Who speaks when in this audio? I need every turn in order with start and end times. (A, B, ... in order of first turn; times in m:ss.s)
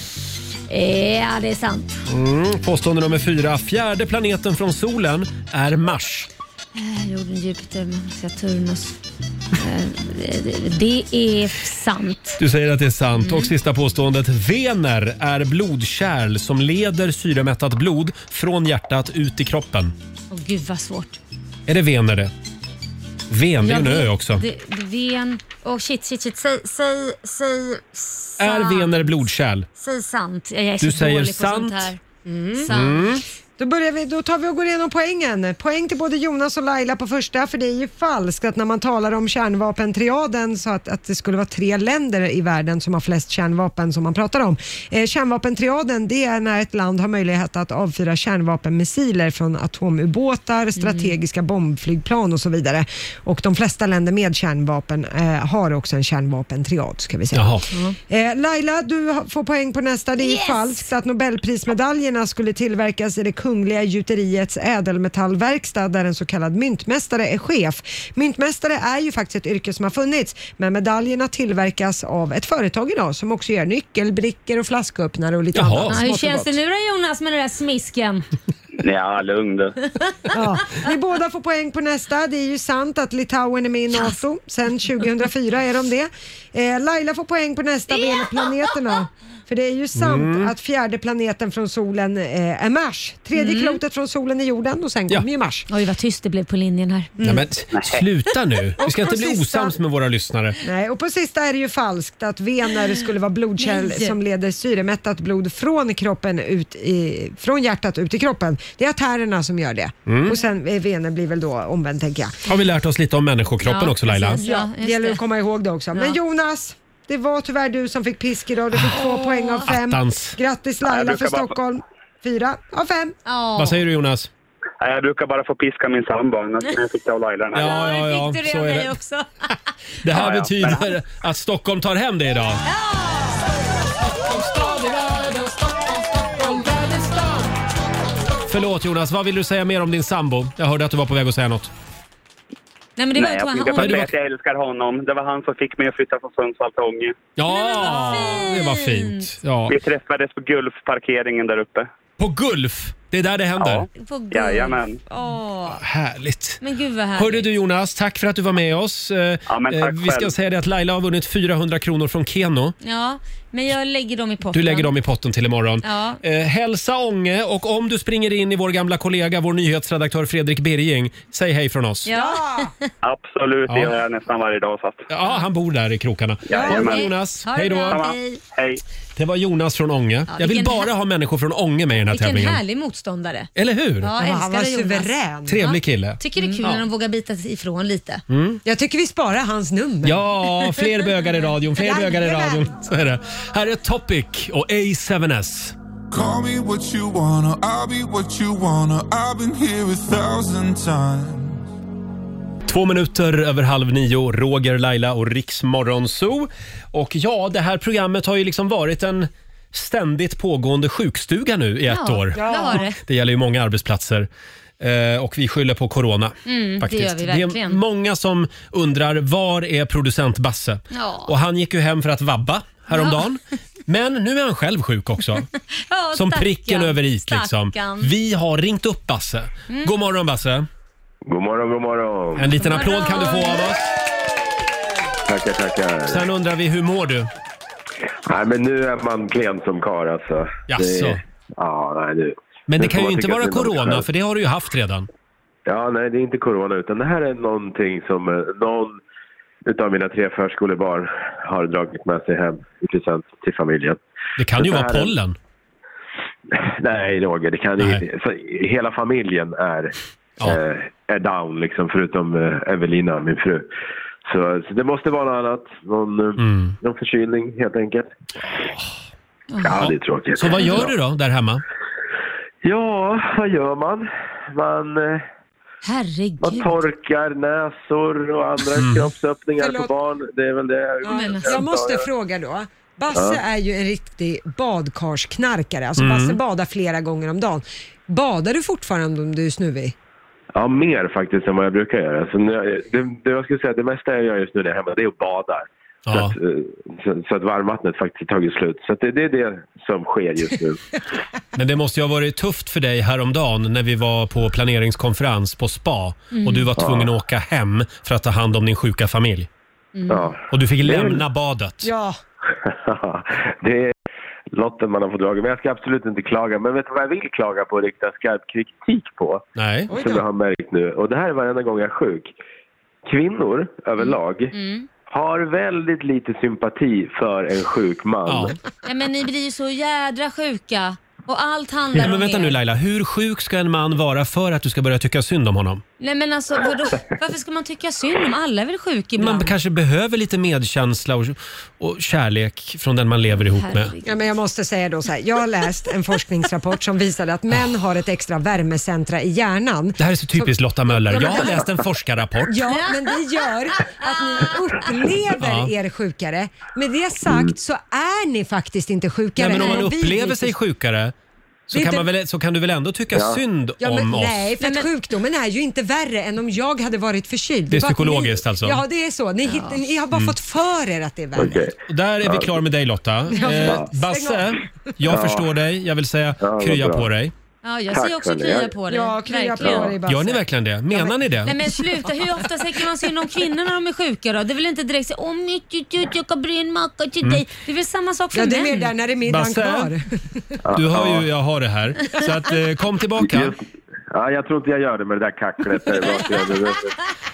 0:00.7-0:02.0 A
0:02.1-0:06.3 B
0:06.7-0:09.0 A
0:09.6-0:12.4 A
0:12.4-0:19.9 B
0:13.2-0:13.5 A
0:20.3-0:21.2 A
0:21.7-0:22.3 B
0:23.3-0:24.4 B
0:23.6-0:29.2 A
0:28.4-0:29.7 B
0:29.8-0:32.0 A
0:30.8-0:31.9 B
0:32.3-0:32.8 C
0:32.6-0:33.1 A
0:32.7-0:33.2 B
0:33.6-1:16.6 C
0:50.8-0:51.1 A
0:57.3-0:57.6 B
0:57.7-0:58.0 A
1:00.2-1:00.8 A
1:15.5-1:16.0 B
1:15.9-1:18.3 A
1:18.8-1:19.8 D
1:20.3-1:35.7 C
1:30.0-1:30.5 B
1:33.4-1:33.8 A
1:35.7-1:37.2 A
1:37.2-1:40.6 B
1:37.7-1:38.0 D
1:38.8-1:39.8 C
1:40.6-1:52.4 C
1:43.6-1:44.2 A
1:50.1-1:50.4 B
1:52.5-1:54.4 B
1:53.6-1:55.2 A
1:54.3-2:03.2 C
1:58.9-1:59.7 A
1:59.6-2:00.4 B
2:00.8-2:01.6 D
2:03.3-2:03.8 A
2:03.6-2:04.3 B
2:04.8-2:07.8 D
2:07.5-2:09.0 B
2:07.6-2:09.5 A
2:10.0-2:12.6 B
2:10.1-2:10.9 D
2:12.7-2:13.4 A
2:14.5-2:15.3 B
2:18.5-2:21.7 B
2:23.0-2:24.1 A
2:23.2-2:27.2 D
2:23.8-2:24.1 B
2:27.4-2:29.8 B
2:27.5-2:29.3 A
2:29.7-2:31.9 D
2:32.2-2:33.9 B
2:33.6-2:35.0 D
2:34.0-2:35.8 A
2:35.7-2:36.6 B
2:36.6-2:37.5 A
2:37.2-2:42.8 B
2:39.5-2:40.3 D
2:42.8-2:44.9 A
2:44.5-2:52.1 B
2:45.8-2:46.2 A
2:52.1-2:52.7 A
2:52.1-2:52.7 C
2:53.0-2:55.1 D
2:53.7-2:54.0 B
2:55.1-2:58.0 B
2:56.5-2:57.1 D
2:56.5-2:57.0 C
2:56.5-2:58.4 A
2:57.9-2:58.8 D
2:59.2-3:02.6 B
3:00.3-3:00.9 A
3:02.1-3:08.2 A
3:03.6-3:04.1 B
3:04.2-3:05.6 C
3:05.5-3:06.9 B
3:08.3-3:08.6 B
3:08.6-3:10.2 C
3:10.0-3:15.8 B
3:11.8-3:12.7 C
3:16.1-3:21.6 E
3:22.7-3:34.3 B
3:31.9-3:33.0 A
3:32.4-3:32.8 C
3:34.8-3:45.5 B
3:36.5-3:37.8 A
3:40.9-3:41.3 A
3:42.9-3:43.2 A
3:45.7-3:48.1 A
3:46.1-3:50.7 B
3:51.3-3:52.6 F
3:52.4-3:53.9 B
3:52.5-3:53.7 A
3:55.3-3:56.3 F
3:56.1-3:57.3 B
3:58.3-4:04.1 F
4:00.7-4:01.2 B
4:02.7-4:05.1 B
4:05.7-4:09.0 F
4:09.7-4:14.0 F
4:14.4-4:15.4 B
4:14.5-4:15.1 F
4:16.6-4:23.7 F
4:24.3-4:28.1 F
4:26.4-4:26.8 B
4:28.7-4:29.0 B
4:29.5-4:29.8 A
4:29.6-4:30.9 F
4:30.4-4:31.6 B
4:30.6-4:30.8 A
4:32.6-4:35.2 F
4:35.8-4:36.8 A
4:36.4-4:42.1 F
4:38.8-4:39.1 B
4:39.6-4:39.9 C
4:41.0-4:41.6 A
4:41.0-4:49.9 C
4:43.1-4:43.4 F
4:46.0-4:46.4 B
4:50.5-5:00.8 F
4:56.1-4:56.3 B
5:01.6-5:09.5 B
5:06.3-5:06.7 A
5:06.8-5:07.1 F
5:10.0-5:10.3 A
5:10.1-5:11.2 F
5:10.5-5:11.9 B
5:11.8-5:12.2 C
5:12.7-5:13.9 F
5:14.5-5:22.3 F
5:19.6-5:19.9 B
5:19.9-5:20.2 C
5:23.1-5:24.5 F
5:24.0-5:24.9 A
5:25.1-5:28.6 F
5:28.3-5:28.6 B
5:28.8-5:32.6 A
5:31.9-5:35.8 B
5:36.0-5:39.6 A
5:39.2-5:43.9 B
5:43.4-5:44.3 A
5:44.0-5:51.7 C
5:50.0-5:52.7 B
5:52.5-6:00.6 C
5:52.7-5:54.8 A
5:55.4-5:55.7 B
5:59.4-6:01.1 B
6:01.7-6:04.5 B
6:01.7-6:02.1 C
6:03.1-6:03.4 F
6:03.8-6:11.6 C
6:04.6-6:04.9 A
6:07.7-6:08.8 B
6:09.4-6:09.8 A
6:11.4-6:12.6 F
6:11.9-6:17.3 B
6:13.3-6:14.6 C
6:13.3-6:13.6 A
6:13.6-6:13.9 F
6:15.1-6:15.5 F
6:16.4-6:17.1 F
6:17.6-6:20.0 A
6:17.9-6:18.8 F
6:18.8-6:21.2 C
6:20.0-6:21.6 B
6:21.4-6:28.9 A
6:28.3-6:30.0 C
6:29.3-6:29.9 B
6:30.7-6:31.3 F
6:30.7-6:33.5 B
6:33.2-6:33.6 F
6:34.1-6:37.0 F